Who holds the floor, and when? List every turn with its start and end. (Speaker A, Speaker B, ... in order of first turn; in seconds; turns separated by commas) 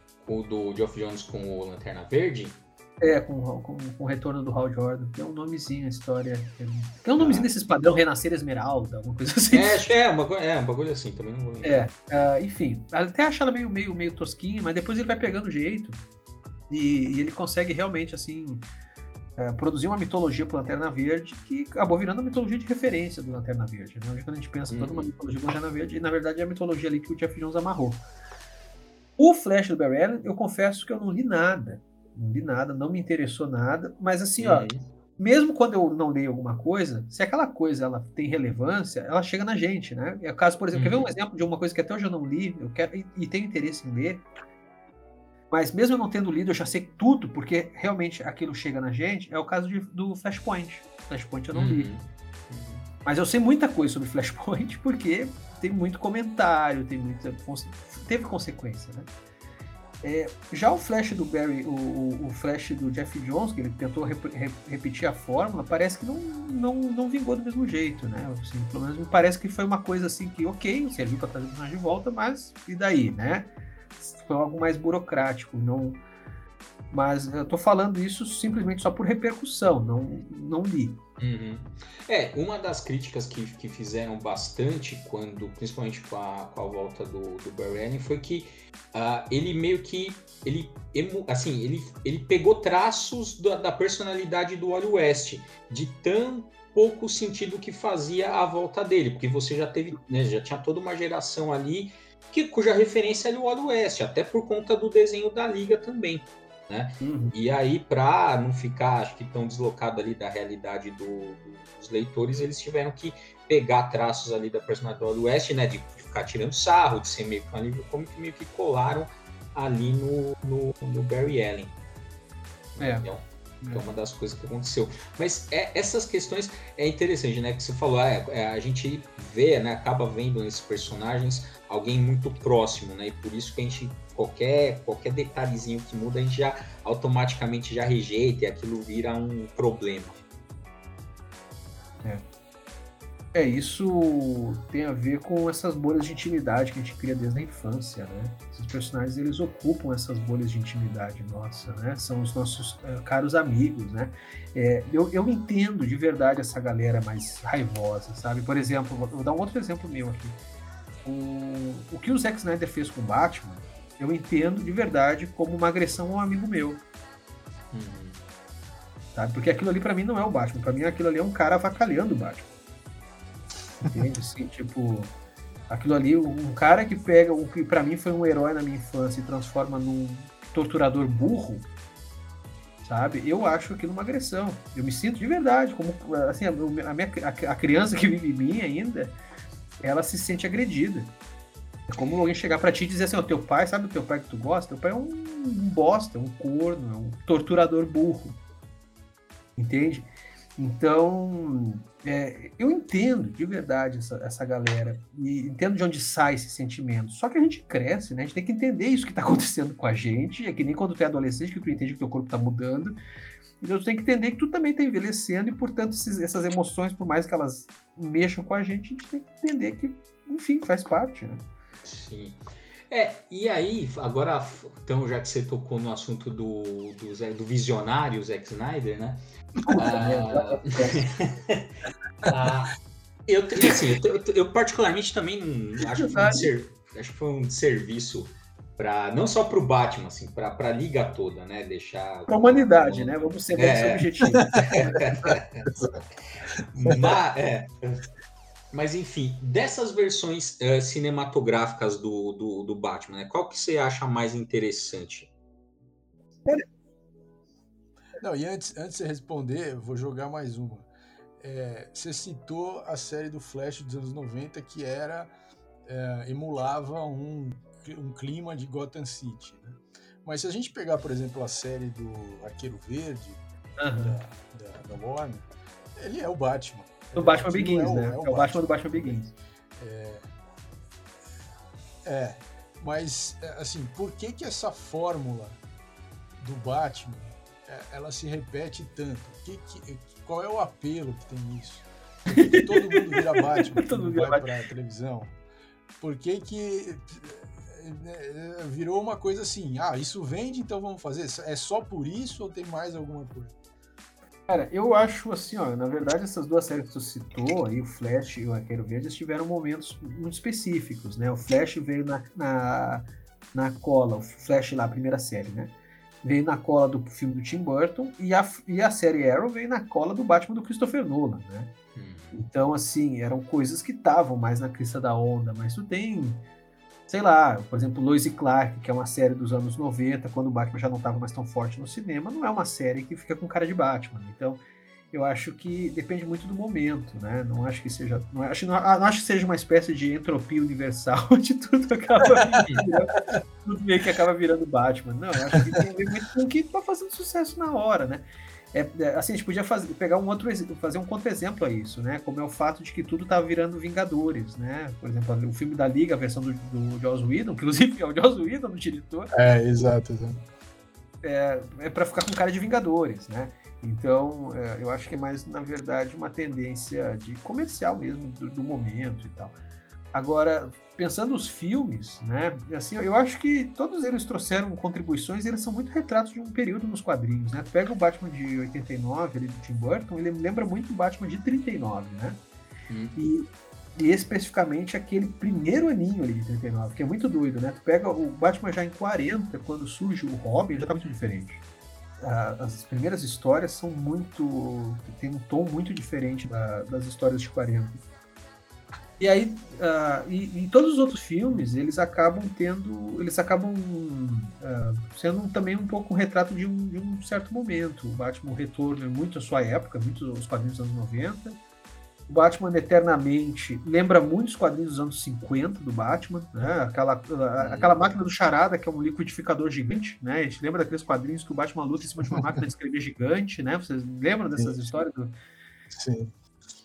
Speaker A: 0.2-2.6, Speaker B: 3.0-9.8, Speaker A: 7.2-7.5, Speaker A: 9.5-11.8, Speaker B: 11.6-16.0, Speaker B: 16.7-18.6, Speaker B: 19.4-28.0, Speaker A: 24.7-25.1, Speaker B: 29.2-34.7, Speaker A: 34.4-34.8, Speaker B: 35.2-44.2, Speaker A: 40.7-41.1, Speaker B: 45.5-51.9, Speaker A: 51.5-52.9, Speaker B: 53.0-59.1, Speaker B: 60.0-76.0, Speaker B: 76.9-81.0, Speaker A: 81.2-121.8, Speaker B: 107.0-107.3, Speaker A: 122.8-140.2, Speaker B: 122.8-123.0, Speaker B: 143.3-160.4, Speaker B: 161.0-166.8, Speaker A: 167.7-168.2, Speaker B: 169.1-172.5, Speaker B: 173.8-175.1, Speaker B: 175.7-181.7, Speaker B: 182.8-189.2, Speaker B: 189.8-191.1, Speaker B: 191.9-198.4, Speaker B: 199.6-213.0, Speaker B: 213.6-221.4, Speaker A: 221.8-229.2, Speaker B: 229.7-231.0, Speaker A: 229.7-245.8, Speaker B: 236.0-236.5, Speaker B: 242.3-245.0, Speaker A: 246.5-248.0, Speaker C: 246.9-247.1, Speaker A: 248.7-255.3, Speaker C: 258.2-265.3, Speaker C: 265.9-273.4, Speaker B: 273.8-274.2, Speaker C: 274.0-280.3, Speaker B: 277.1-279.3, Speaker C: 282.0-285.6, Speaker C: 286.4-295.4, Speaker B: 292.3-294.5, Speaker C: 296.0-303.5, Speaker B: 304.5-321.7, Speaker A: 321.9-322.4, Speaker B: 322.3-326.4, Speaker B: 327.1-359.3, Speaker C: 359.3-360.4, Speaker B: 361.2-369.5, Speaker B: 370.1-382.4, Speaker A: 382.9-383.2, Speaker B: 383.1-391.6, Speaker B: 392.2-398.0, Speaker B: 399.2-411.6, Speaker B: 412.3-425.3, Speaker A: 417.6-417.9, Speaker C: 424.6-424.8, Speaker C: 425.9-426.3